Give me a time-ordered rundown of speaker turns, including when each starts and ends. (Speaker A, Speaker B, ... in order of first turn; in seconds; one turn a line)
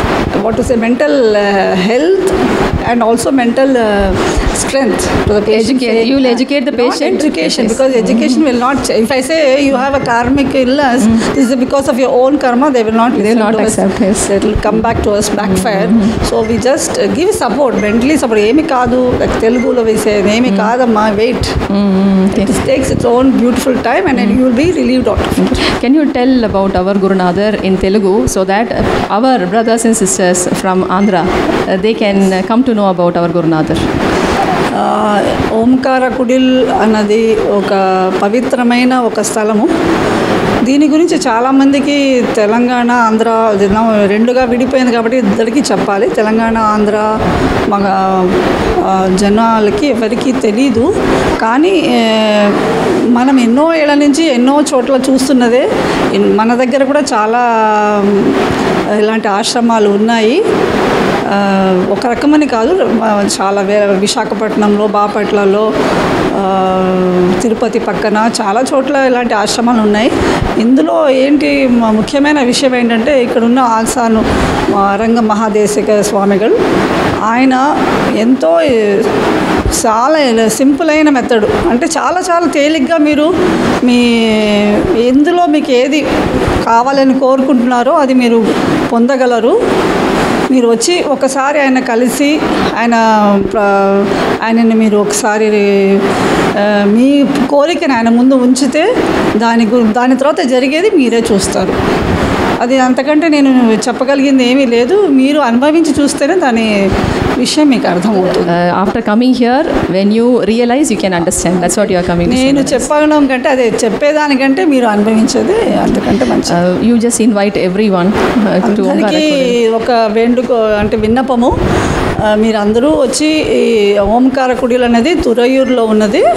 Speaker A: 0.4-21.6
Speaker B: 5.5-8.4
Speaker B: 13.2-14.3
Speaker B: 15.4-16.2
Speaker B: 20.5-20.7
Speaker B: 21.7-22.5
Speaker A: 22.3-25.4
Speaker B: 24.1-24.4
Speaker B: 25.4-33.9
Speaker A: 34.8-39.7
Speaker A: 40.6-47.1
Speaker A: 47.7-58.4
Speaker A: 59.0-60.4
Speaker A: 61.3-65.7
Speaker A: 66.3-76.6
Speaker A: 77.3-77.6
Speaker A: 78.2-79.1
Speaker A: 79.8-83.3
Speaker A: 83.8-86.1
Speaker A: 86.7-89.6
Speaker A: 90.5-96.0
Speaker A: 96.6-98.9
Speaker A: 99.4-101.8
Speaker A: 102.6-108.5
Speaker B: 108.5-112.9
Speaker A: 111.6-116.6
Speaker B: 115.7-119.6
Speaker A: 118.6-121.5
Speaker A: 122.3-126.2